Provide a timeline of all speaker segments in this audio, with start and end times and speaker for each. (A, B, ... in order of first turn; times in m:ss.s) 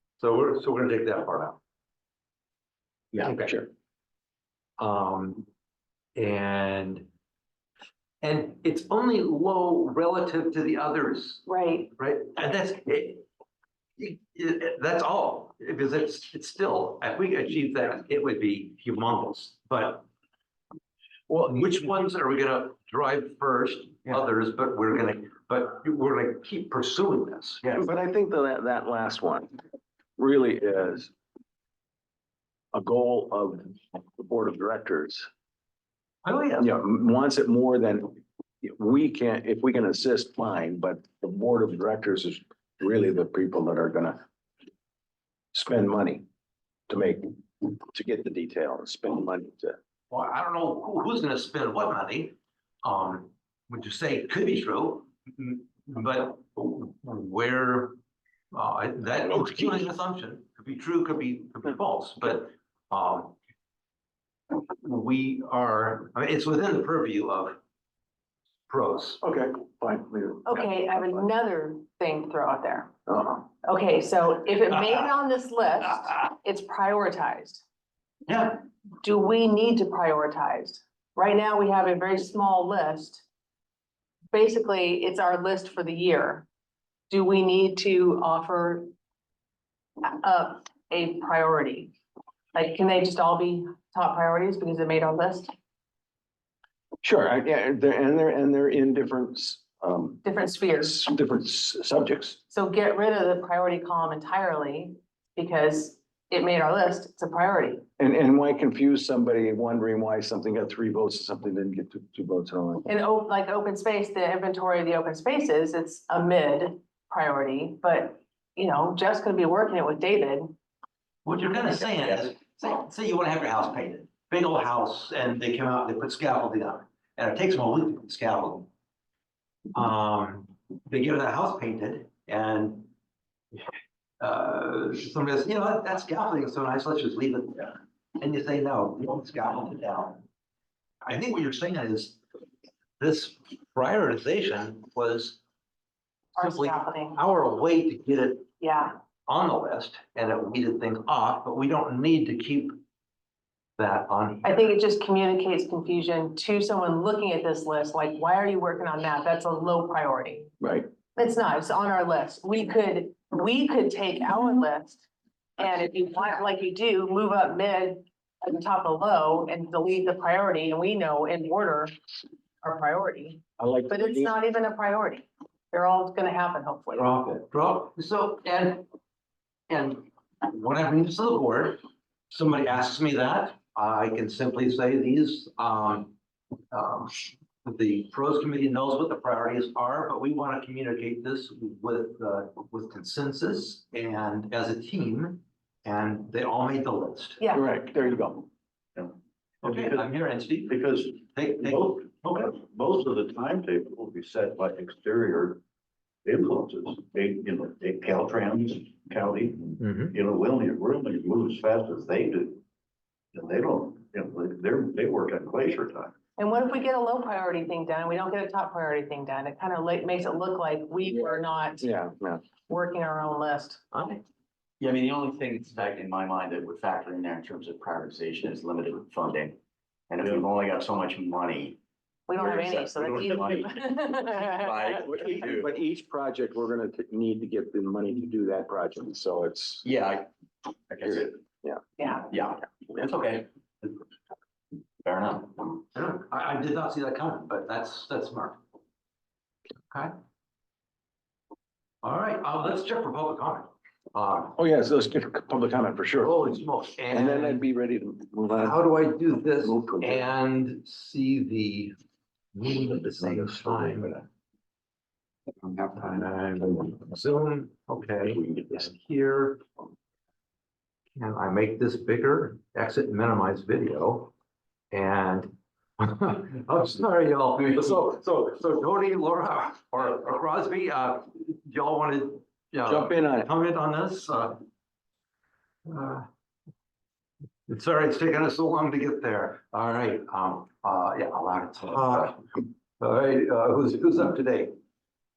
0:00.2-0:01.6 A
0:03.2-0:03.6 A
0:03.2-0:03.7 B
0:04.8-0:05.5 A
0:06.2-0:07.1 A
0:08.2-0:11.4 A
0:11.4-0:11.9 C
0:12.0-0:13.2 A
0:14.0-0:20.1 A
0:21.3-0:27.7 A
0:27.8-0:29.6 B
0:30.2-0:31.1 B
0:32.7-0:35.3 B
0:36.2-0:36.7 A
0:36.6-0:44.2 B
0:45.5-0:46.2 B
0:46.9-0:49.8 B
0:50.1-0:58.0 A
0:58.5-1:03.4 A
0:59.4-0:59.7 B
1:04.5-1:07.6 A
1:08.7-1:09.2 A
1:09.2-1:11.2 B
1:10.5-1:12.9 C
1:13.1-1:13.4 B
1:13.6-1:17.6 C
1:18.3-1:18.6 A
1:19.0-1:23.3 C
1:24.3-1:26.5 C
1:27.1-1:28.9 C
1:30.0-1:31.9 C
1:32.5-1:35.5 C
1:37.0-1:40.2 B
1:40.2-1:41.1 C
1:40.8-1:42.4 B
1:42.5-1:47.9 C
1:48.0-1:52.9 B
1:52.9-2:00.6 C
2:01.2-2:08.7 A
2:09.7-2:12.9 A
2:14.2-2:20.2 A
2:21.0-2:22.2 A
2:23.0-2:25.4 A
2:26.4-2:27.2 C
2:26.4-2:28.5 A
2:28.6-2:29.0 C
2:29.3-2:32.8 A
2:33.8-2:34.7 A
2:34.4-2:40.5 C
2:40.6-2:40.9 B
2:41.2-2:45.1 C
2:45.6-2:51.9 C
2:52.6-2:57.2 C
2:53.6-2:54.3 B
2:56.9-2:58.9 A
2:59.7-3:06.2 A
3:06.7-3:17.4 A
3:17.4-3:17.6 C
3:17.5-3:18.5 B
3:19.0-3:20.1 D
3:19.6-3:22.6 A
3:20.7-3:25.6 D
3:26.2-3:32.6 D
3:29.8-3:30.2 A
3:33.3-3:36.2 D
3:36.4-3:41.9 C
3:41.8-3:42.4 B
3:42.7-3:43.9 C
3:43.9-3:44.2 A
3:44.8-3:49.6 E
3:50.1-3:51.8 E
3:52.3-3:54.7 C
3:52.4-3:53.8 E
3:54.3-3:55.7 E
3:54.9-3:59.9 B
3:59.8-4:01.4 E
4:02.0-4:02.3 C
4:02.3-4:04.0 E
4:05.0-4:05.8 E
4:05.9-4:08.6 A
4:12.0-4:14.6 A
4:14.6-4:16.4 B
4:16.2-4:17.7 A
4:17.1-4:18.8 B
4:18.6-4:21.9 A
4:19.6-4:20.3 B
4:22.5-4:24.2 A
4:23.2-4:24.2 B
4:25.6-4:29.6 A
4:28.3-4:28.8 B
4:31.2-4:34.3 A
4:34.9-4:44.6 A
4:42.9-4:43.5 B
4:45.9-4:46.3 A
4:47.7-4:54.7 A